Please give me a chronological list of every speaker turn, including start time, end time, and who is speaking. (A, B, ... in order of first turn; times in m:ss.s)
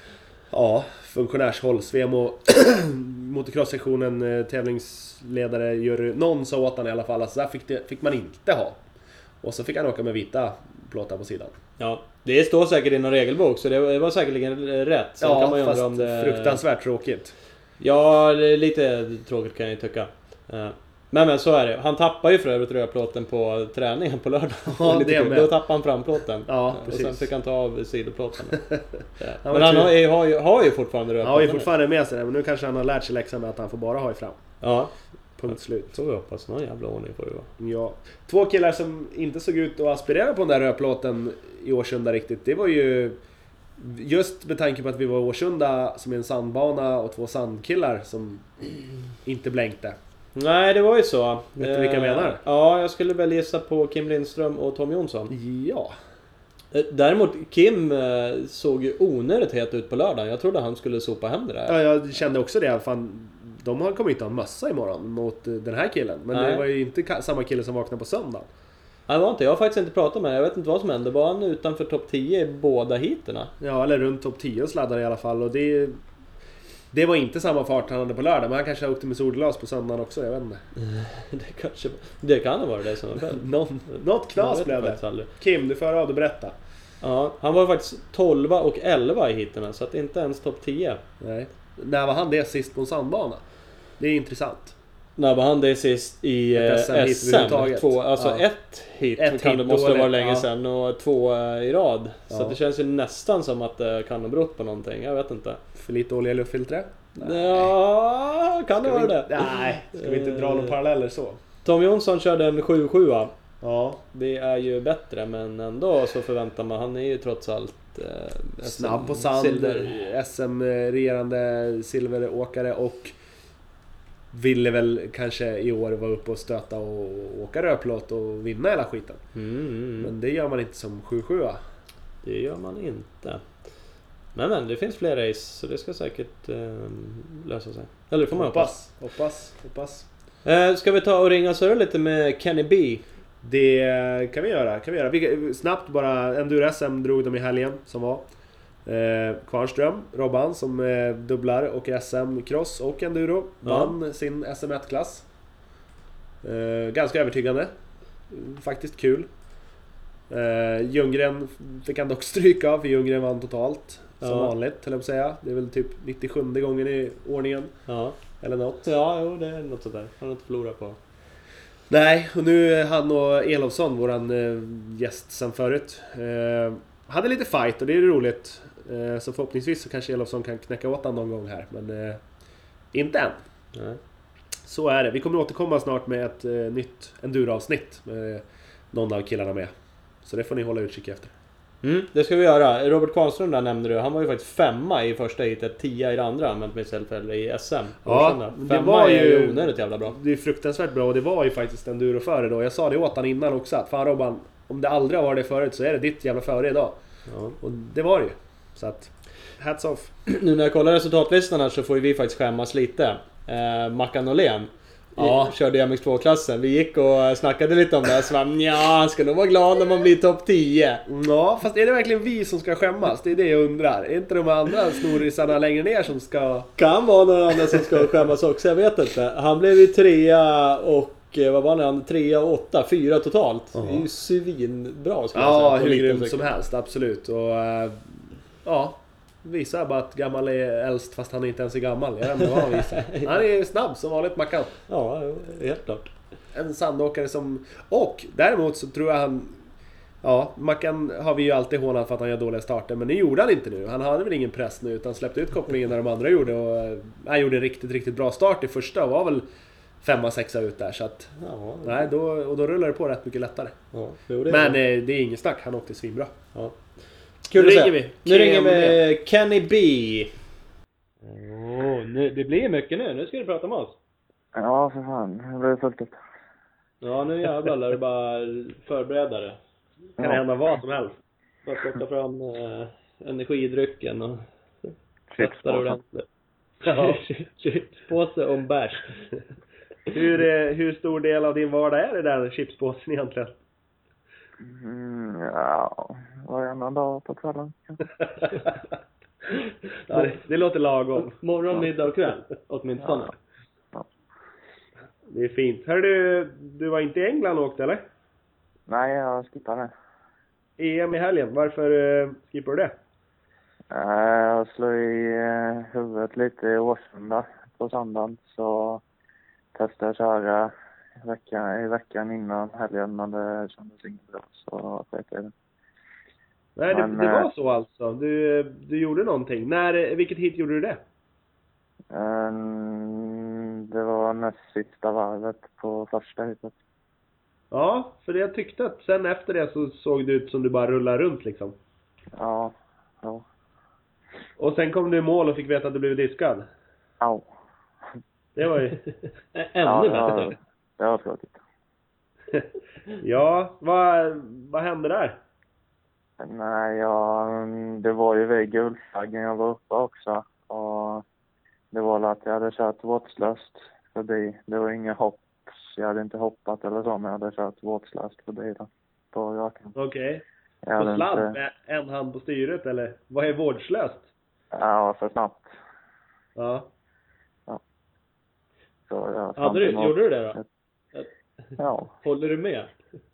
0:00.5-0:08.8 A
0:09.4-0:11.6 A
0:11.8-0:16.6 B
0:15.2-0:17.3 A
0:17.8-0:28.6 B
0:24.7-0:25.5 A
0:26.5-0:27.3 A
0:28.5-0:30.0 A
0:29.2-0:31.7 B
0:31.2-0:34.4 A
0:34.6-0:34.9 B
0:35.4-0:36.0 A
0:35.5-0:37.5 B
0:37.6-0:43.2 A
0:43.8-0:50.0 A
0:50.4-0:55.3 B
0:51.6-0:52.4 A
0:55.3-0:56.0 A
0:56.7-1:01.8 B
1:01.7-1:08.5 A
1:06.3-1:06.6 B
1:09.1-1:13.5 B
1:13.6-1:16.0 A
1:16.9-1:20.6 A
1:20.8-1:25.3 B
1:23.2-1:26.6 A
1:27.0-1:31.0 B
1:31.2-1:33.4 A
1:34.0-1:34.8 A
1:35.2-1:45.6 B
1:36.5-1:38.4 A
1:39.2-1:40.5 A
1:42.3-1:42.6 A
1:45.8-1:47.7 A
1:47.2-1:50.7 B
1:48.8-1:51.4 A
1:51.6-1:53.3 B
1:53.6-1:54.0 A
1:54.1-2:00.0 B
1:58.6-2:03.2 A
2:04.3-2:09.2 A
2:09.4-2:10.1 B
2:10.0-2:11.6 A
2:12.2-2:13.5 B
2:14.4-2:18.7 B
2:18.3-2:20.1 A
2:20.4-2:23.0 B
2:23.4-2:28.3 A
2:28.8-2:35.2 A
2:33.6-2:34.0 B
2:36.4-2:37.7 A
2:38.3-2:39.3 A
2:40.3-2:47.8 A
2:44.2-2:44.5 B
2:47.9-2:48.2 B
2:48.4-2:48.9 A
2:48.8-2:51.0 B
2:51.9-3:02.2 A
3:02.9-3:03.4 A
3:03.7-3:04.0 B
3:04.6-3:09.7 A
3:10.2-3:11.3 A
3:11.8-3:20.2 B
3:18.0-3:27.0 A
3:27.3-3:27.6 B
3:27.6-3:30.1 A
3:30.3-3:41.0 B
3:35.2-3:35.5 A
3:41.1-3:46.7 A
3:46.8-3:56.5 B
3:53.8-3:54.0 A
3:55.4-4:04.8 A
4:02.6-4:03.3 B
4:04.9-4:06.1 B
4:06.5-4:09.6 A
4:10.2-4:19.5 A
4:20.0-4:21.3 A
4:21.4-4:22.0 B
4:21.8-4:23.8 A
4:23.9-4:24.8 B
4:24.5-4:26.4 A
4:26.5-4:26.8 B
4:27.5-4:30.3 B
4:27.5-4:29.0 A
4:31.2-4:34.0 B
4:34.6-4:36.2 C
4:37.0-4:39.6 B
4:40.2-4:41.2 A
4:41.7-4:46.3 B
4:45.3-4:46.0 C
4:46.8-4:47.2 A
4:46.8-4:49.2 B
4:50.1-4:53.6 A
4:54.6-4:58.0 C
5:00.1-5:01.4 A
5:01.3-5:03.3 B
5:05.3-5:08.0 A
5:08.9-5:09.9 C
5:10.8-5:12.9 A
5:13.9-5:19.0 C
5:19.8-5:25.5 C
5:26.8-5:31.0 A
5:26.9-5:27.5 C
5:32.1-5:36.7 C
5:37.7-5:41.8 A
5:42.4-5:43.4 C
5:44.6-5:46.7 A
5:47.2-5:47.5 C
5:48.6-5:49.0 A
5:49.6-5:50.6 B
5:49.8-5:51.6 C
5:53.2-5:55.4 A
5:56.4-6:01.2 C
6:01.9-6:10.0 C
6:10.0-6:10.4 A
6:10.8-6:11.6 C
6:11.0-6:14.3 A
6:14.7-6:15.7 C
6:16.6-6:16.9 A
6:19.1-6:20.6 C
6:19.6-6:20.6 B
6:21.8-6:22.1 C
6:22.2-6:23.0 B